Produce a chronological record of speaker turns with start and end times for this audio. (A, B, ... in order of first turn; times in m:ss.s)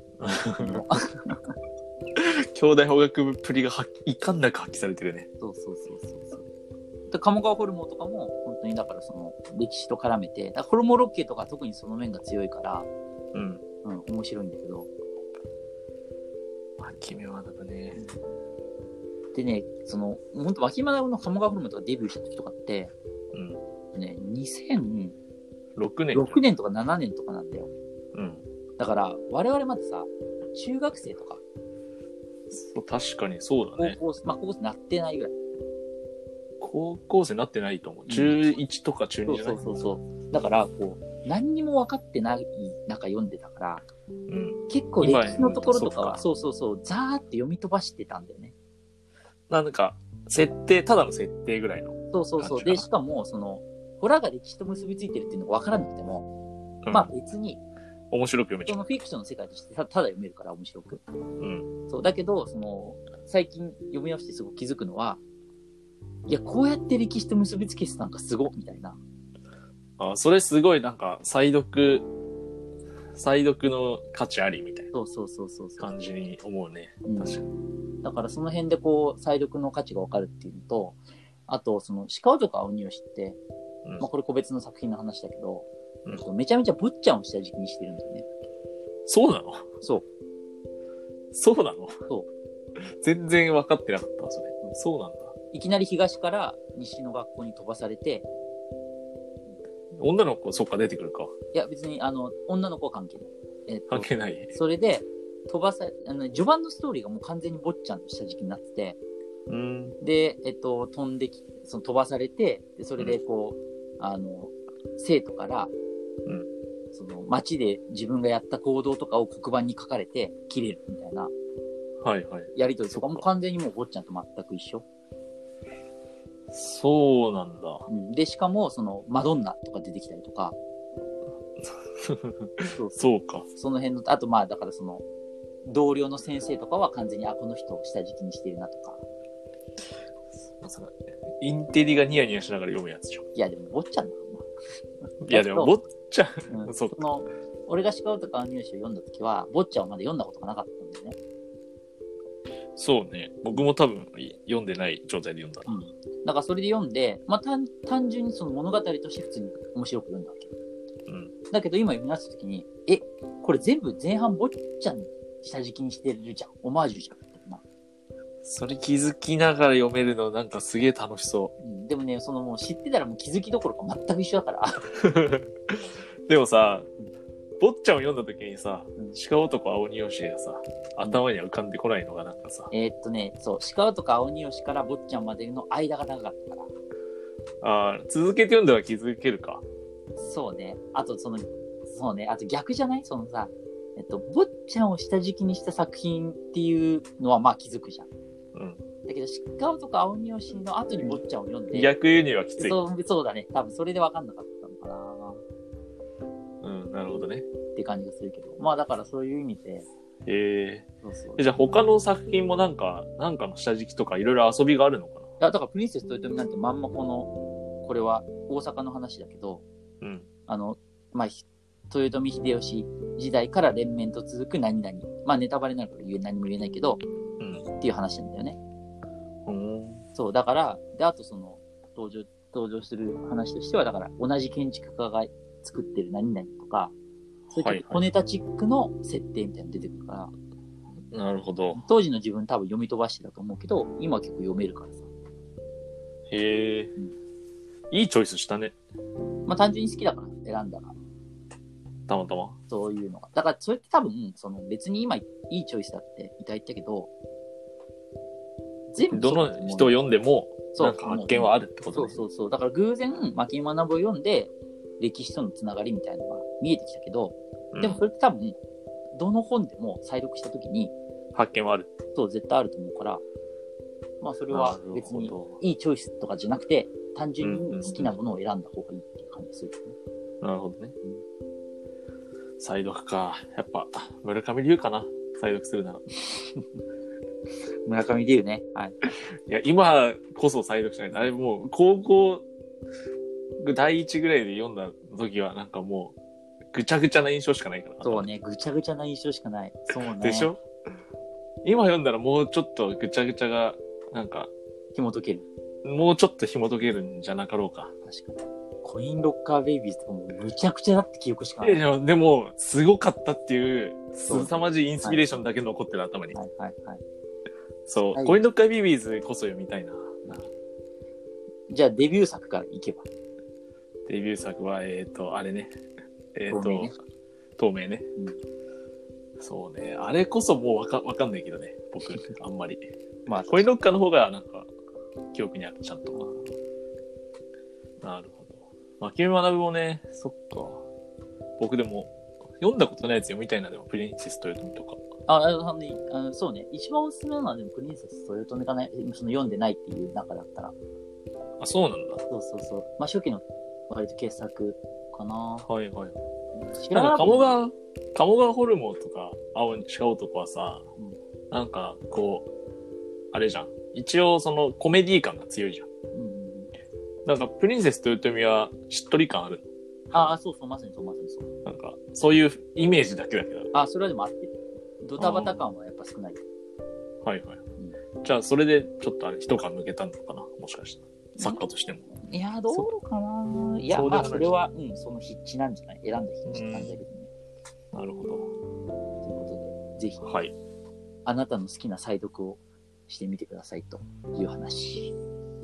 0:00.2-0:00.8 A
0:00.5-0:01.5 B
0:02.2-0:05.3 A
0:05.4-0:06.4 B
0:07.1-0:12.9 B
0:13.3-0:13.6 A
0:13.8-0:14.9 B
0:16.8-0:18.0 A
0:19.3-0:22.9 B
0:23.3-0:23.6 A
0:23.9-0:25.2 B
0:25.8-0:26.4 A
0:26.1-0:27.7 B
0:28.1-0:28.4 A
0:28.8-0:31.4 B
0:32.5-0:34.0 A
0:33.8-0:35.4 B
0:36.6-0:39.6 A
0:38.1-0:38.4 B
0:39.3-0:43.9 B
0:44.3-0:46.2 A
0:44.7-0:48.5 B
0:49.5-0:52.8 A
0:52.1-0:56.3 B
0:56.8-0:57.1 A
0:56.9-0:57.6 B
0:58.1-0:58.9 A
0:58.7-1:01.0 B
1:01.4-1:01.7 A
1:01.9-1:05.2 B
1:06.3-1:09.0 B
1:10.0-1:12.1 A
1:13.1-1:14.9 A
1:14.9-1:15.9 B
1:15.8-1:17.5 A
1:17.0-1:17.4 B
1:18.0-1:23.4 B
1:24.0-1:28.2 B
1:29.1-1:29.7 A
1:31.3-1:31.9 A
1:33.0-1:35.3 A
1:35.5-1:38.2 B
1:40.0-1:41.3 A
1:41.5-1:49.0 B
1:43.9-1:44.5 A
1:49.5-1:50.0 A
1:50.0-1:55.7 B
1:56.9-2:01.3 B
2:02.0-2:03.2 A
2:02.5-2:04.8 B
2:06.5-2:07.8 A
2:07.9-2:10.6 B
2:11.6-2:13.5 A
2:13.5-2:15.0 B
2:15.6-2:19.0 B
2:20.5-2:23.3 A
2:23.3-2:24.5 B
2:25.2-2:27.0 A
2:25.3-2:25.7 B
2:26.5-2:31.2 B
2:32.8-2:35.7 A
2:35.7-2:40.5 B
2:41.1-2:41.3 A
2:41.5-2:47.6 B
2:48.4-2:51.5 A
2:51.6-2:54.8 B
2:55.0-2:56.9 A
2:57.6-3:02.7 A
3:02.7-3:06.7 B
3:07.6-3:09.6 A
3:10.2-3:18.1 B
3:18.5-3:18.8 A
3:19.0-3:21.9 B
3:21.7-3:22.8 A
3:22.6-3:25.4 B
3:26.6-3:27.5 A
3:27.7-3:29.8 B
3:30.2-3:35.3 A
3:31.0-3:31.4 B
3:35.4-3:37.3 B
3:37.8-3:39.6 B
3:40.0-3:40.3 A
3:40.5-3:47.0 B
3:47.4-3:47.6 A
3:47.8-3:48.6 B
3:49.4-3:50.0 A
3:50.1-3:56.9 B
3:57.5-3:58.1 A
3:57.5-4:00.3 B
4:01.1-4:01.8 A
4:01.7-4:05.1 B
4:06.3-4:06.9 A
4:07.9-4:08.7 A
4:09.4-4:11.0 B
4:12.1-4:12.6 A
4:12.7-4:17.1 B
4:18.9-4:20.0 B
4:19.1-4:22.2 A
4:20.7-4:28.6 B
4:27.7-4:28.0 A
4:29.1-4:30.9 B
4:31.3-4:31.9 A
4:32.1-4:33.2 B
4:34.2-4:40.0 B
4:34.5-4:35.6 A
4:37.4-4:38.1 A
4:40.4-4:40.9 A
4:42.6-4:46.0 A
4:46.2-4:46.6 B
4:47.8-4:49.0 B
4:49.5-4:52.4 A
4:53.6-4:56.2 A
4:56.7-4:58.3 A
4:58.0-5:00.5 B
5:00.1-5:00.6 A
5:01.6-5:04.5 A
5:04.9-5:05.5 B
5:05.8-5:07.9 A
5:08.0-5:11.8 B
5:11.6-5:16.4 A
5:14.2-5:15.4 B
5:16.3-5:17.0 B
5:17.9-5:20.2 A
5:18.1-5:18.4 B
5:21.7-5:23.0 B
5:24.1-5:25.7 A
5:26.3-5:26.9 A
5:26.5-5:27.0 B
5:27.6-5:28.1 A
5:29.4-5:32.9 A
5:33.3-5:33.7 B
5:33.4-5:34.7 A
5:35.3-5:36.3 A
5:36.1-5:36.5 B
5:38.0-5:40.8 A
5:41.6-5:45.0 A
5:45.3-5:50.7 B
5:51.6-5:52.2 A
5:52.3-5:55.7 B
5:55.6-5:56.2 A
5:56.5-5:57.5 B
5:56.9-6:00.9 A
6:01.5-6:02.5 A
6:03.3-6:05.9 A
6:06.1-6:06.7 B
6:07.2-6:09.7 A
6:10.1-6:11.5 B
6:11.6-6:13.7 A
6:13.7-6:16.4 B
6:15.2-6:15.6 A
6:17.2-6:17.6 A
6:18.2-6:22.1 A
6:22.1-6:27.3 B
6:23.9-6:24.6 A
6:26.4-6:27.0 A
6:27.9-6:28.5 A
6:29.2-6:30.2 B
6:30.2-6:30.5 A
6:31.2-6:35.1 B